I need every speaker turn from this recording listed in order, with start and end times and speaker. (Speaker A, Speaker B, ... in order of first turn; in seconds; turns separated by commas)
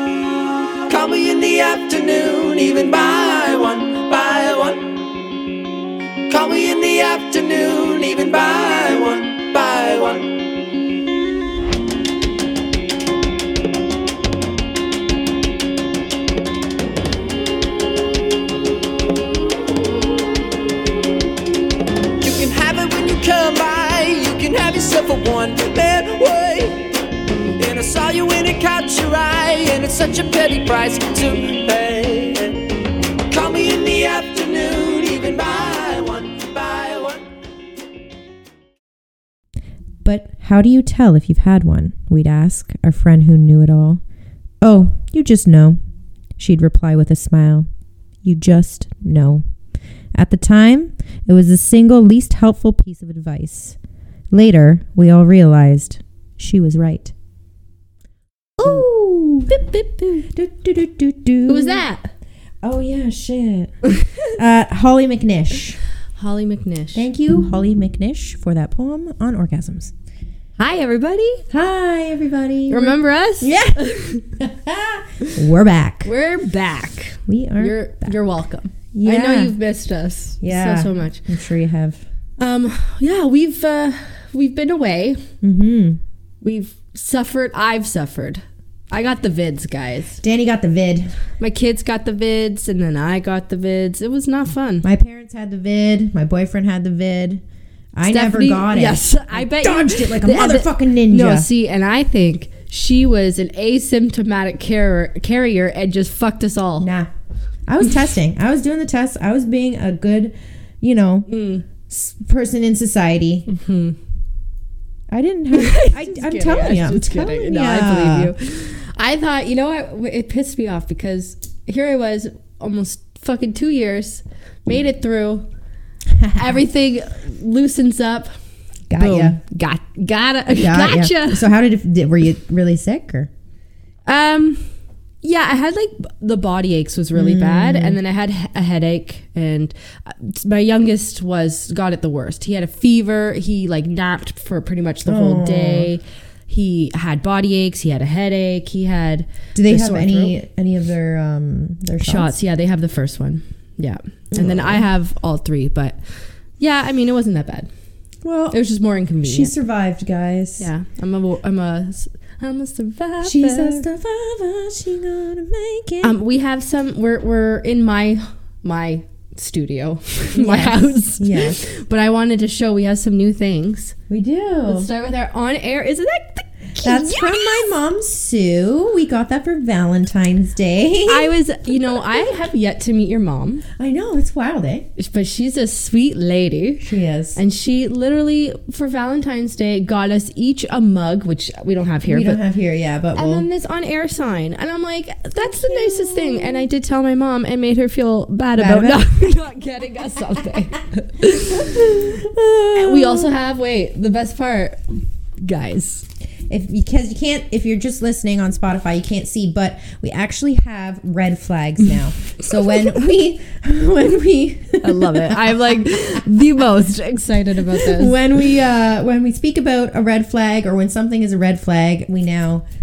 Speaker A: 0.9-5.0, Speaker A: 6.3-10.5, Speaker A: 22.2-26.9, Speaker A: 27.6-32.6, Speaker A: 33.3-37.2, Speaker B: 40.0-44.0, Speaker B: 44.6-45.8, Speaker B: 46.4-47.7, Speaker B: 48.2-49.4, Speaker B: 50.1-53.8, Speaker B: 54.3-57.1, Speaker B: 58.6-59.5, Speaker C: 58.6-58.9, Speaker C: 59.5-60.3, Speaker B: 60.3-61.8, Speaker C: 61.5-62.1, Speaker B: 62.6-65.8, Speaker C: 66.2-67.1, Speaker B: 66.9-69.9, Speaker C: 70.6-71.5, Speaker B: 71.5-76.1, Speaker C: 72.7-74.2, Speaker C: 76.0-81.3, Speaker B: 77.3-78.1, Speaker B: 78.9-79.5, Speaker B: 80.4-82.0, Speaker C: 82.4-85.2, Speaker B: 85.4-86.0, Speaker C: 86.4-90.2, Speaker B: 90.2-91.1, Speaker C: 91.4-94.9, Speaker B: 94.8-97.4, Speaker B: 97.9-101.5, Speaker C: 98.1-106.9, Speaker B: 106.8-107.1, Speaker B: 107.7-111.3, Speaker C: 111.3-111.6, Speaker B: 111.9-113.5, Speaker C: 113.5-114.0, Speaker B: 115.1-118.3, Speaker C: 115.5-125.5, Speaker B: 126.1-126.6, Speaker C: 126.3-128.3, Speaker B: 128.9-129.4, Speaker C: 129.0-131.5, Speaker B: 130.6-133.3, Speaker C: 134.1-134.6, Speaker C: 135.2-150.3, Speaker B: 137.1-138.0, Speaker B: 145.1-145.9, Speaker B: 149.5-152.3, Speaker C: 152.0-156.0, Speaker B: 154.3-154.8, Speaker C: 156.6-157.7, Speaker B: 158.2-158.6, Speaker C: 158.5-159.5, Speaker B: 159.2-160.7, Speaker C: 160.6-163.8, Speaker B: 163.2-166.2, Speaker C: 166.0-173.9, Speaker B: 170.3-171.6, Speaker B: 174.1-174.9, Speaker C: 174.7-177.7, Speaker B: 176.8-181.4, Speaker C: 181.1-183.6, Speaker B: 183.8-184.9, Speaker C: 184.9-192.4, Speaker B: 186.8-187.4, Speaker B: 192.0-193.5, Speaker C: 193.1-202.1, Speaker B: 195.4-196.6, Speaker B: 198.6-199.0, Speaker B: 201.5-203.3, Speaker C: 202.7-204.8, Speaker C: 205.4-206.0, Speaker B: 206.5-215.8, Speaker C: 214.8-218.2, Speaker B: 217.7-222.6